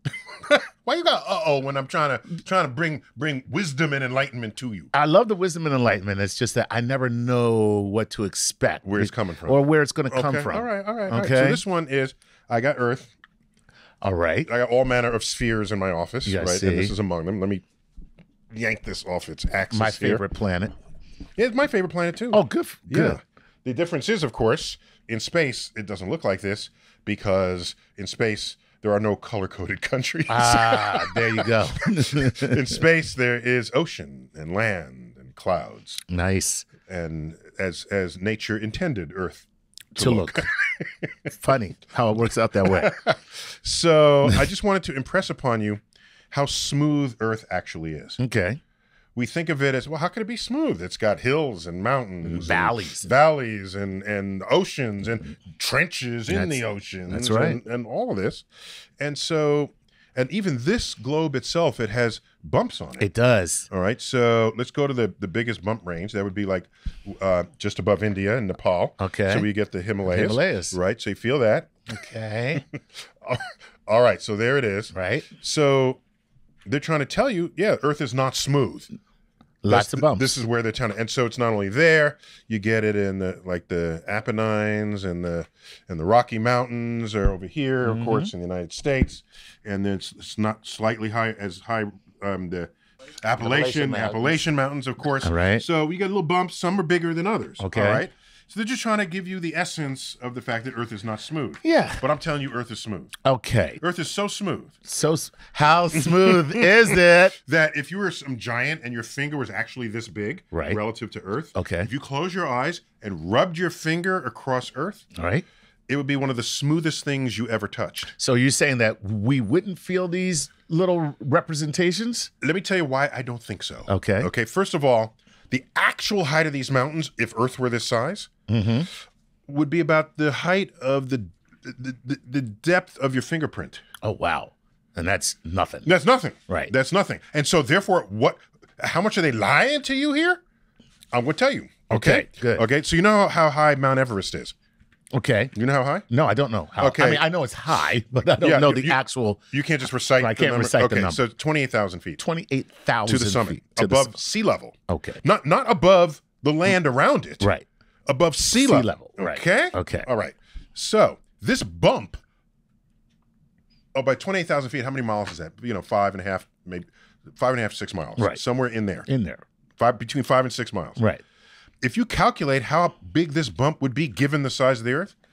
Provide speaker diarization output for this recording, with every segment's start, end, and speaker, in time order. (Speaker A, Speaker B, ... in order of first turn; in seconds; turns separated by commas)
Speaker A: 0.2-4.9, Speaker B: 4.9-11.6, Speaker A: 8.8-13.1, Speaker B: 14.0-14.5, Speaker A: 14.4-17.6, Speaker B: 16.2-16.9, Speaker A: 18.5-20.2, Speaker B: 19.7-20.7, Speaker A: 21.4-36.0, Speaker B: 22.3-23.2, Speaker B: 30.3-32.8, Speaker B: 36.1-36.7, Speaker A: 36.9-41.1, Speaker B: 40.0-40.5, Speaker B: 41.3-43.0, Speaker A: 42.7-45.8, Speaker A: 46.3-48.2, Speaker B: 48.2-48.6, Speaker A: 49.1-58.5, Speaker B: 52.2-53.1, Speaker B: 56.3-57.6, Speaker A: 59.0-63.1, Speaker B: 63.0-63.7, Speaker A: 63.7-71.8, Speaker B: 69.0-69.5, Speaker B: 70.0-70.8, Speaker B: 71.9-72.6, Speaker A: 72.7-76.0, Speaker B: 74.9-75.3, Speaker A: 76.7-78.9, Speaker B: 79.6-80.3, Speaker A: 79.7-103.2, Speaker B: 87.8-88.3, Speaker B: 93.4-94.4, Speaker B: 95.2-95.6, Speaker B: 97.6-98.0, Speaker B: 101.6-102.0, Speaker B: 103.2-103.8, Speaker A: 103.8-104.8, Speaker B: 104.8-107.3, Speaker A: 106.0-115.1, Speaker B: 110.5-110.8, Speaker B: 111.5-111.9, Speaker B: 115.2-115.4, Speaker A: 115.9-118.1, Speaker B: 118.2-122.3, Speaker A: 122.4-128.3, Speaker B: 123.9-124.3, Speaker B: 128.5-128.9, Speaker A: 129.5-133.8, Speaker B: 134.0-135.9, Speaker A: 135.8-140.4, Speaker B: 136.5-136.7, Speaker A: 141.1-144.5, Speaker B: 141.9-142.7, Speaker B: 145.1-145.5, Speaker A: 145.5-146.1, Speaker B: 146.1-149.4, Speaker A: 146.8-147.2, Speaker A: 148.4-149.0, Speaker A: 149.5-152.2, Speaker B: 150.2-151.2, Speaker B: 152.2-154.1, Speaker A: 153.0-157.5, Speaker B: 154.9-155.2, Speaker A: 158.1-162.2, Speaker B: 158.5-160.1, Speaker A: 163.9-169.1, Speaker B: 169.1-169.4, Speaker A: 169.8-171.0, Speaker B: 171.0-171.2, Speaker A: 171.8-175.1